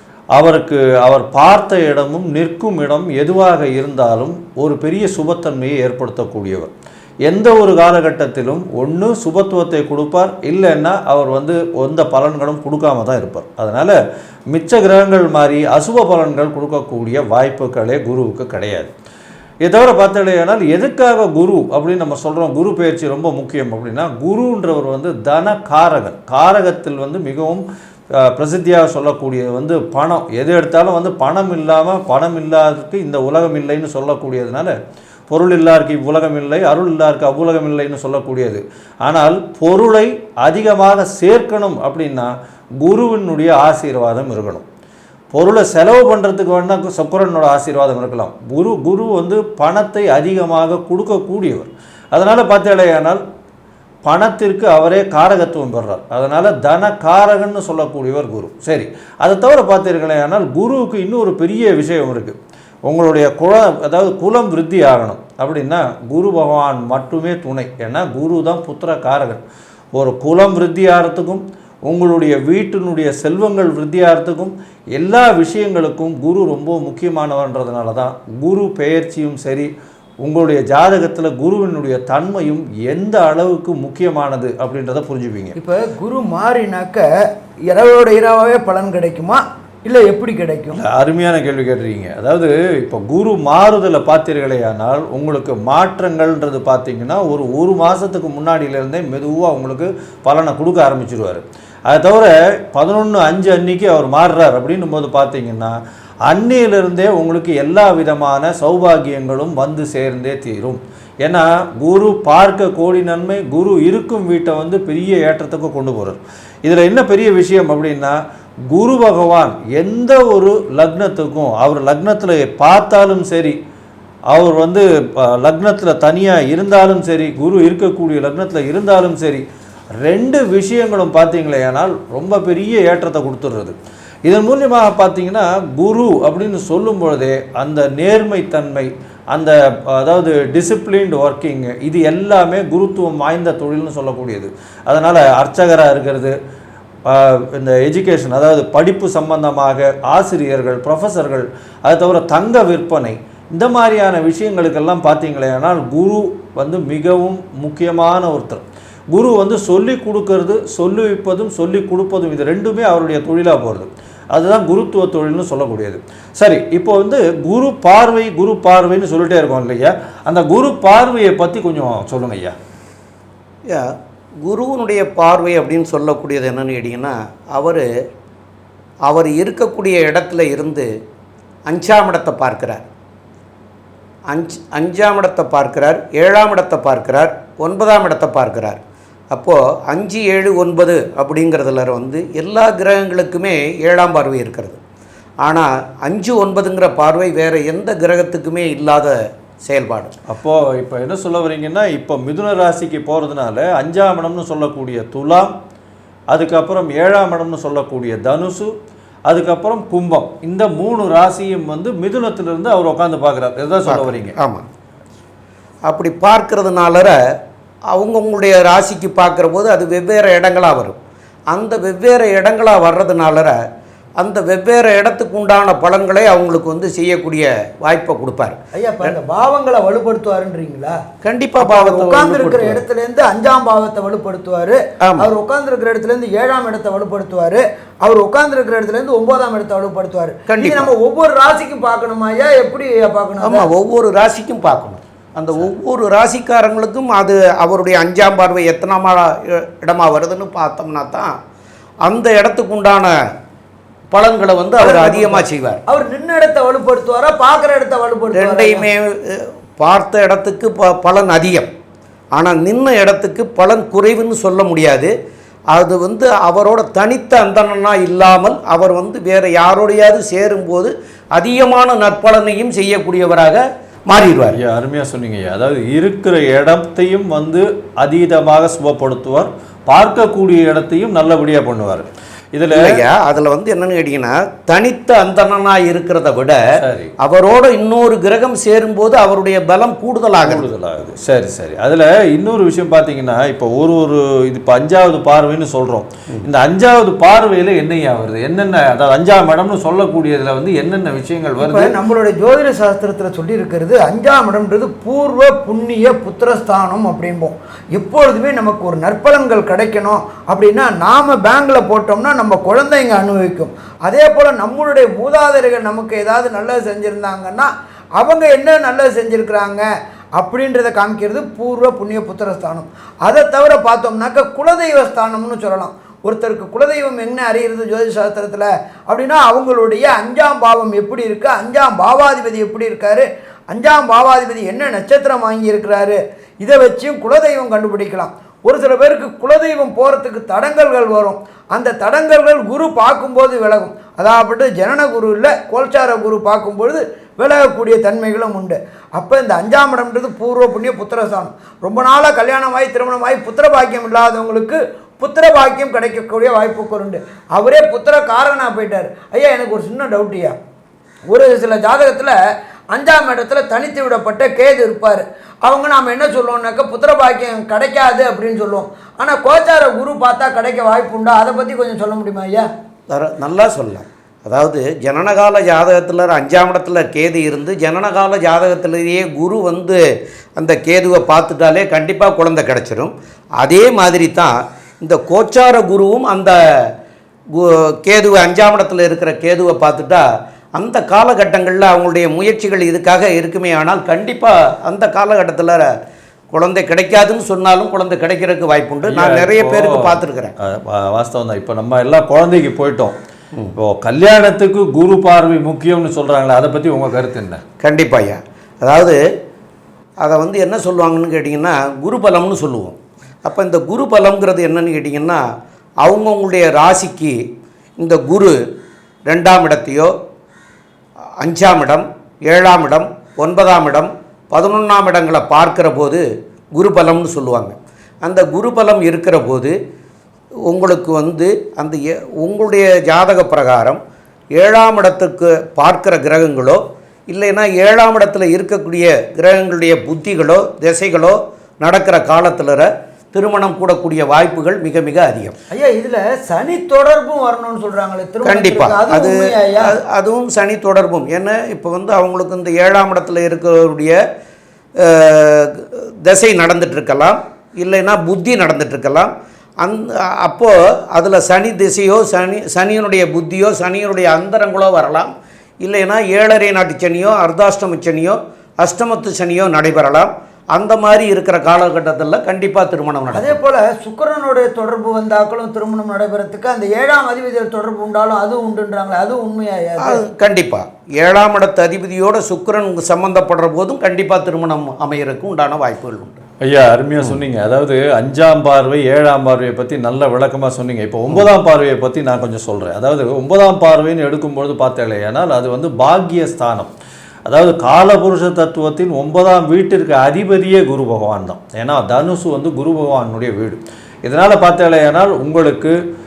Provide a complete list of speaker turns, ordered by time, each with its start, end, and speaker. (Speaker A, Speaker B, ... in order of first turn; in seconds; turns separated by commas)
Speaker A: 0.3-6.7, Speaker A: 7.3-14.0, Speaker A: 14.5-18.9, Speaker A: 19.6-27.6, Speaker A: 28.1-34.8, Speaker A: 35.3-42.3, Speaker A: 42.8-44.6, Speaker A: 45.3-53.2, Speaker A: 54.0-62.4, Speaker A: 62.9-69.4, Speaker A: 70.0-79.7, Speaker A: 80.2-85.6, Speaker B: 85.6-87.1, Speaker B: 87.7-90.8, Speaker A: 90.8-105.8, Speaker A: 106.3-118.2, Speaker A: 118.7-123.6, Speaker A: 124.3-129.4, Speaker A: 130.0-146.4, Speaker A: 147.1-172.6, Speaker C: 173.7-177.9, Speaker C: 179.1-180.9, Speaker C: 181.7-182.8, Speaker C: 184.3-188.8, Speaker C: 189.3-194.8, Speaker C: 195.4-200.1, Speaker A: 200.3-205.5, Speaker A: 206.3-208.7, Speaker A: 209.3-214.4, Speaker C: 213.9-214.7, Speaker C: 215.9-217.2, Speaker C: 217.9-221.0, Speaker C: 221.5-223.6, Speaker C: 224.2-229.2, Speaker B: 228.7-231.0, Speaker C: 231.2-232.8, Speaker B: 231.6-243.7, Speaker C: 235.0-235.3, Speaker C: 240.5-240.9, Speaker C: 243.4-251.4, Speaker C: 252.0-253.2, Speaker C: 254.1-255.8, Speaker B: 254.8-258.9, Speaker C: 258.4-261.7, Speaker C: 262.4-265.1, Speaker C: 265.7-274.6, Speaker A: 274.5-283.0, Speaker C: 282.7-286.6, Speaker A: 286.8-287.1, Speaker C: 287.2-290.6, Speaker A: 290.4-301.9, Speaker B: 301.6-319.9, Speaker B: 320.4-360.6, Speaker B: 361.3-362.4, Speaker B: 362.9-372.7, Speaker C: 373.1-380.0, Speaker C: 380.6-386.9, Speaker C: 387.5-390.2, Speaker C: 390.8-395.9, Speaker C: 396.5-400.6, Speaker A: 399.1-403.1, Speaker A: 403.8-407.6, Speaker C: 407.8-409.2, Speaker C: 410.2-415.4, Speaker C: 416.0-417.4, Speaker C: 418.0-418.6, Speaker C: 419.3-420.1, Speaker C: 421.4-429.8, Speaker C: 430.7-434.0, Speaker C: 434.6-445.6, Speaker B: 445.7-450.0, Speaker C: 448.4-454.2, Speaker C: 455.0-465.3, Speaker C: 465.8-473.6, Speaker B: 473.3-480.2, Speaker C: 480.0-486.4, Speaker A: 486.6-496.9, Speaker A: 497.5-506.0